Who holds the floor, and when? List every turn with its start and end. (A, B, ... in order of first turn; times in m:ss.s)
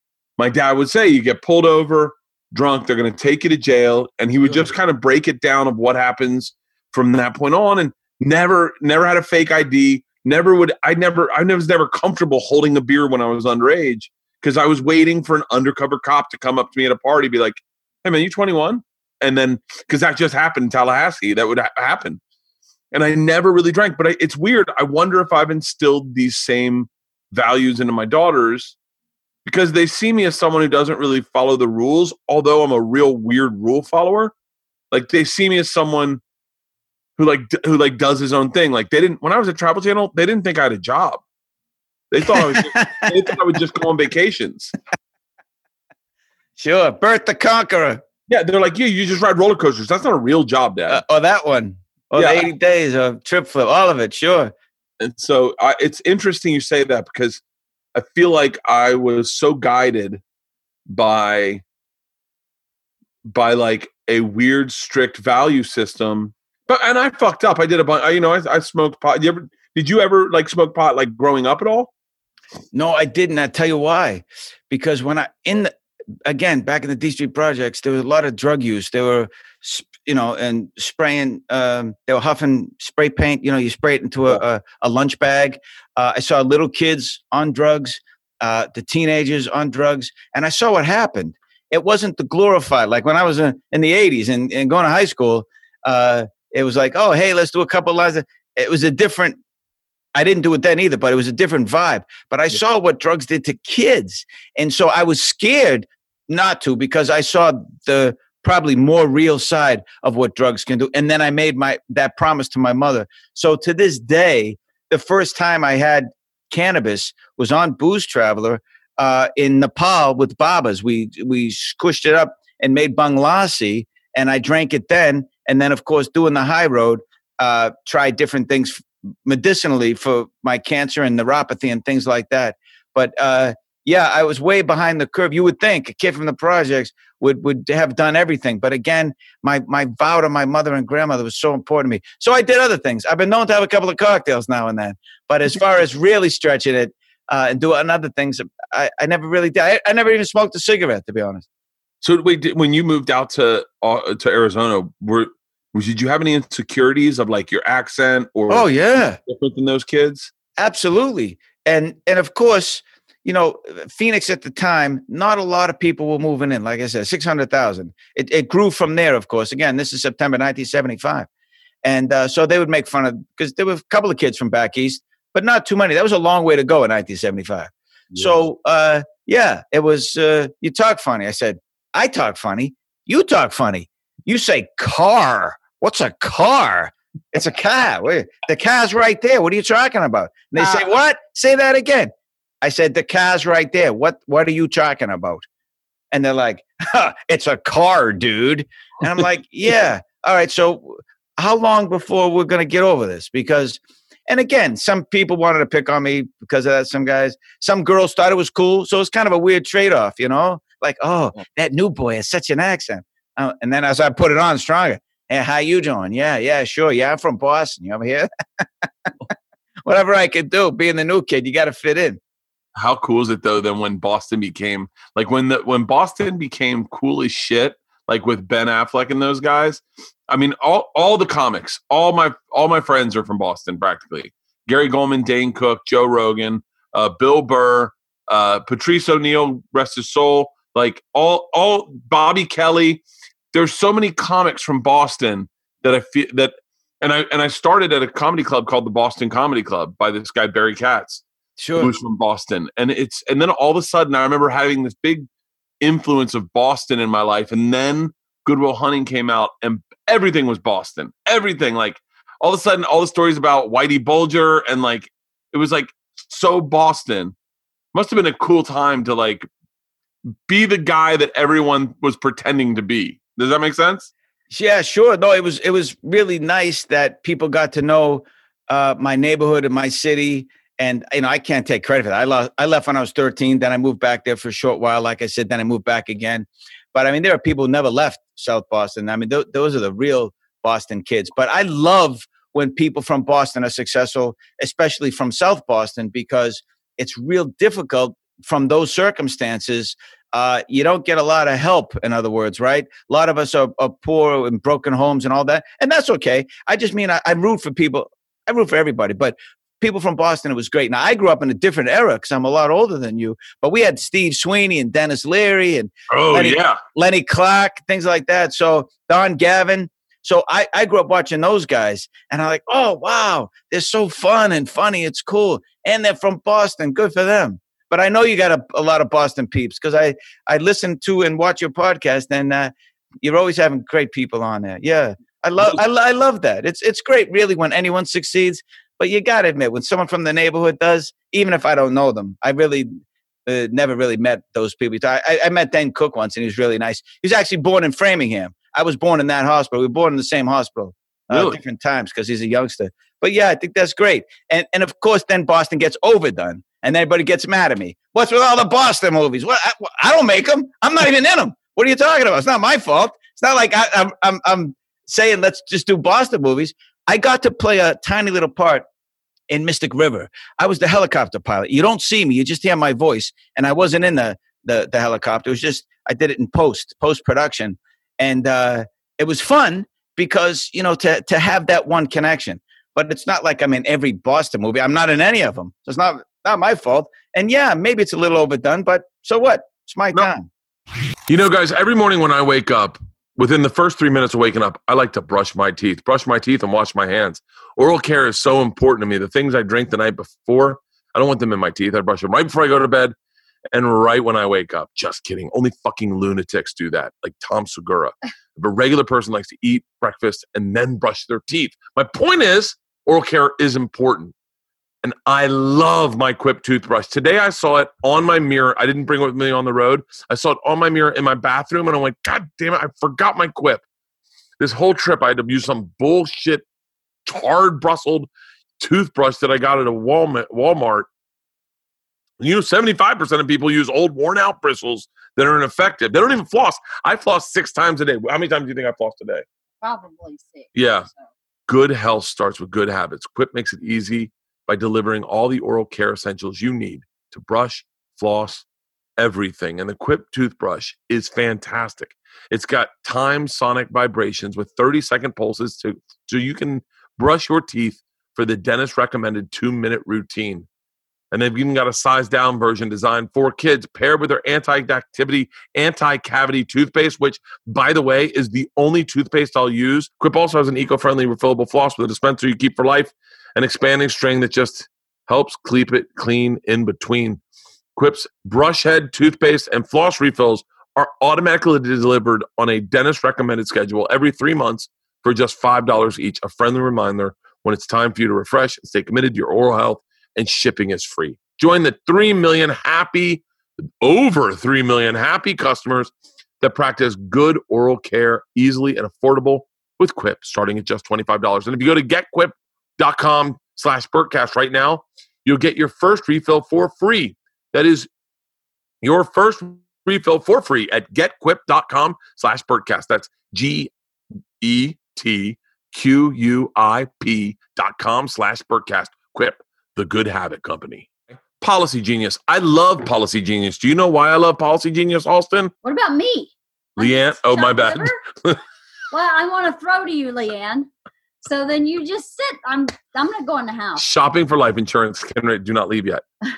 0:00.4-0:22.2 A
0:22.9-0:28.7 A
0:29.4-0:34.3 A
0:34.9-0:36.2 A
0:37.2-0:41.2 A
0:42.1-0:44.7 A
0:42.3-0:43.1 B
0:46.6-0:48.0 B
0:48.3-0:51.0 A
0:50.9-0:54.5 B
0:52.1-0:52.5 A
0:55.0-0:57.4 A
0:57.9-1:00.2 A
1:00.9-1:01.6 A
1:03.2-1:11.9 A
1:12.7-1:15.7 B
1:16.2-1:39.4 B
1:40.1-2:31.4 B
2:32.0-2:38.7 A
2:38.5-2:39.2 B
2:39.2-2:40.3 A
2:40.6-2:51.3 B
2:51.8-3:12.1 B
3:12.6-3:15.4 B
3:16.1-3:38.3 B
3:39.8-3:42.2 B
3:42.8-4:03.0 A
4:03.5-4:11.2 A
4:11.6-4:11.9 B
4:11.8-4:15.3 A
4:15.8-4:27.3 A
4:27.9-4:29.4 A
4:30.5-4:34.1 A
4:34.5-5:32.7 B
5:16.1-5:16.8 A
5:33.2-5:42.9 B
5:43.4-6:08.8 B
5:51.3-5:51.6 A
6:09.5-6:30.5 B
6:31.3-6:43.1 A
6:43.7-6:54.3 A
6:55.0-7:03.8 A
7:04.6-7:06.6 A
7:07.2-7:08.3 A
7:08.8-7:11.1 A
7:12.4-7:19.4 A
7:19.8-7:20.7 C
7:20.7-7:21.1 A
7:21.7-7:28.6 A
7:29.2-7:40.7 A
7:41.3-7:57.4 A
7:58.0-8:13.4 A
8:14.0-8:28.1 A
8:29.0-8:33.9 A
8:34.6-8:41.1 A
8:41.6-8:45.7 A
8:45.8-8:48.2 C
8:47.0-8:48.6 A
8:49.1-8:50.9 C
8:51.4-8:54.0 C
8:54.0-8:56.2 A